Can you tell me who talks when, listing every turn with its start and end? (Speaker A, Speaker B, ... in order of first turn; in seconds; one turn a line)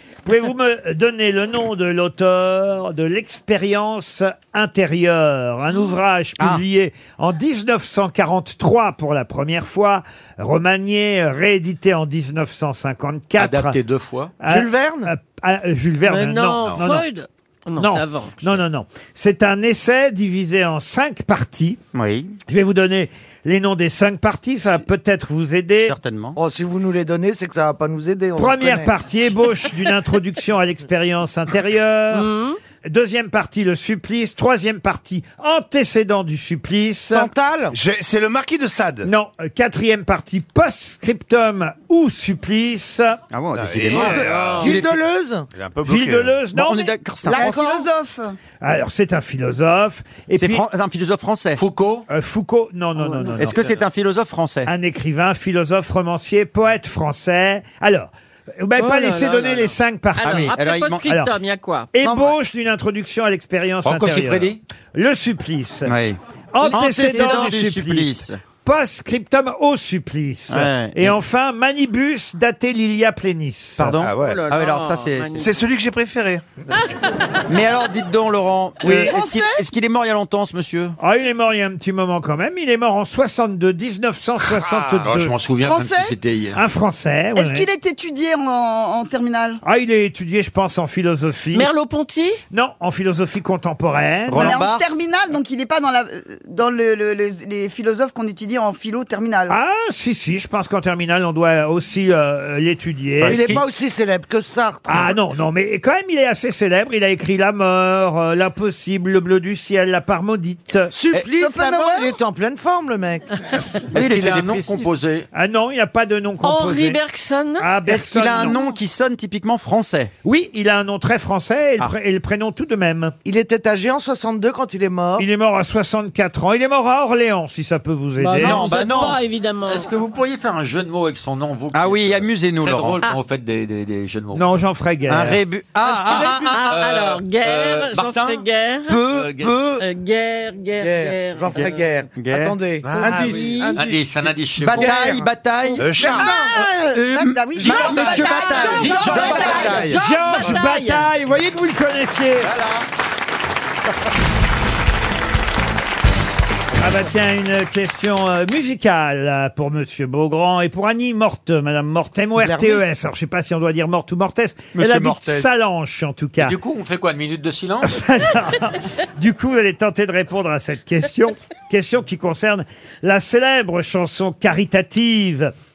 Speaker A: 0.2-13.8
Speaker B: 13.4-14.3
Speaker A: 14.4-17.1
Speaker C: 14.4-15.1
Speaker D: 16.1-18.4
Speaker A: 17.8-21.8
Speaker E: 21.9-22.4
Speaker A: 22.5-25.9
Speaker E: 25.8-26.4
Speaker C: 26.4-28.9
Speaker A: 28.4-32.3
Speaker D: 32.1-32.6
Speaker A: 32.8-37.3
Speaker C: 37.1-37.8
Speaker F: 37.7-39.1
Speaker A: 39.0-43.2
Speaker E: 43.3-44.9
Speaker F: 43.5-44.9
Speaker C: 43.9-45.5
Speaker B: 44.0-44.7
Speaker F: 45.5-46.4
Speaker A: 45.9-46.9
Speaker E: 46.5-47.8
Speaker C: 47.3-47.7
Speaker G: 47.3-48.4
Speaker A: 48.6-50.6
Speaker E: 50.4-51.6
Speaker B: 51.6-52.1
Speaker A: 52.1-53.6
Speaker G: 53.1-53.4
Speaker E: 53.4-54.7
Speaker A: 54.7-60.5
Speaker D: 58.8-61.9
Speaker E: 60.2-61.1
Speaker A: 61.0-61.3
Speaker A: 61.9-65.9
Speaker C: 62.0-62.3
Speaker B: 63.8-64.6
Speaker E: 65.8-68.4
Speaker A: 66.5-74.0
Speaker D: 66.6-67.5
Speaker E: 70.5-71.2
Speaker E: 73.8-75.4
Speaker F: 73.9-74.5
Speaker D: 74.1-75.6
Speaker F: 75.3-76.5
Speaker E: 77.5-81.0
Speaker G: 78.9-79.6
Speaker C: 78.9-79.4
Speaker A: 81.0-85.4
Speaker B: 85.0-86.6
Speaker G: 85.6-86.1
Speaker A: 86.5-87.7
Speaker G: 87.3-89.6
Speaker A: 89.6-91.7
Speaker D: 91.5-92.4
Speaker A: 92.5-94.6
Speaker E: 94.3-94.8
Speaker G: 94.3-99.6
Speaker A: 99.5-103.6
Speaker B: 103.2-103.7
Speaker C: 103.2-105.2
Speaker A: 104.9-110.9
Speaker C: 110.9-113.3
Speaker G: 111.4-112.2
Speaker E: 113.9-114.8
Speaker B: 113.9-115.3
Speaker A: 115.3-117.0
Speaker D: 116.4-117.7
Speaker A: 117.6-118.6
Speaker E: 117.9-120.1
Speaker D: 118.4-118.8
Speaker A: 120.2-123.1
Speaker C: 123.2-125.3
Speaker A: 125.2-128.6
Speaker D: 128.2-129.9
Speaker E: 128.4-129.2
Speaker B: 129.7-134.6
Speaker E: 131.7-133.0
Speaker A: 134.3-135.4
Speaker E: 135.1-136.7
Speaker F: 136.1-136.3
Speaker C: 136.1-136.4
Speaker D: 136.5-139.0
Speaker B: 136.7-138.4
Speaker E: 138.9-139.8
Speaker B: 139.1-139.5
Speaker D: 139.8-141.8
Speaker C: 140.8-146.6
Speaker E: 141.5-142.6
Speaker F: 142.8-143.8
Speaker D: 143.1-143.8
Speaker B: 143.8-145.0
Speaker E: 144.6-150.0
Speaker F: 145.8-146.4
Speaker G: 146.1-149.9
Speaker D: 147.7-151.1
Speaker B: 147.7-149.7
Speaker A: 149.9-152.5
Speaker E: 152.4-152.9
Speaker A: 156.8-166.6
Speaker C: 162.4-162.8
Speaker E: 164.8-165.5
Speaker B: 166.4-168.0
Speaker A: 167.8-175.5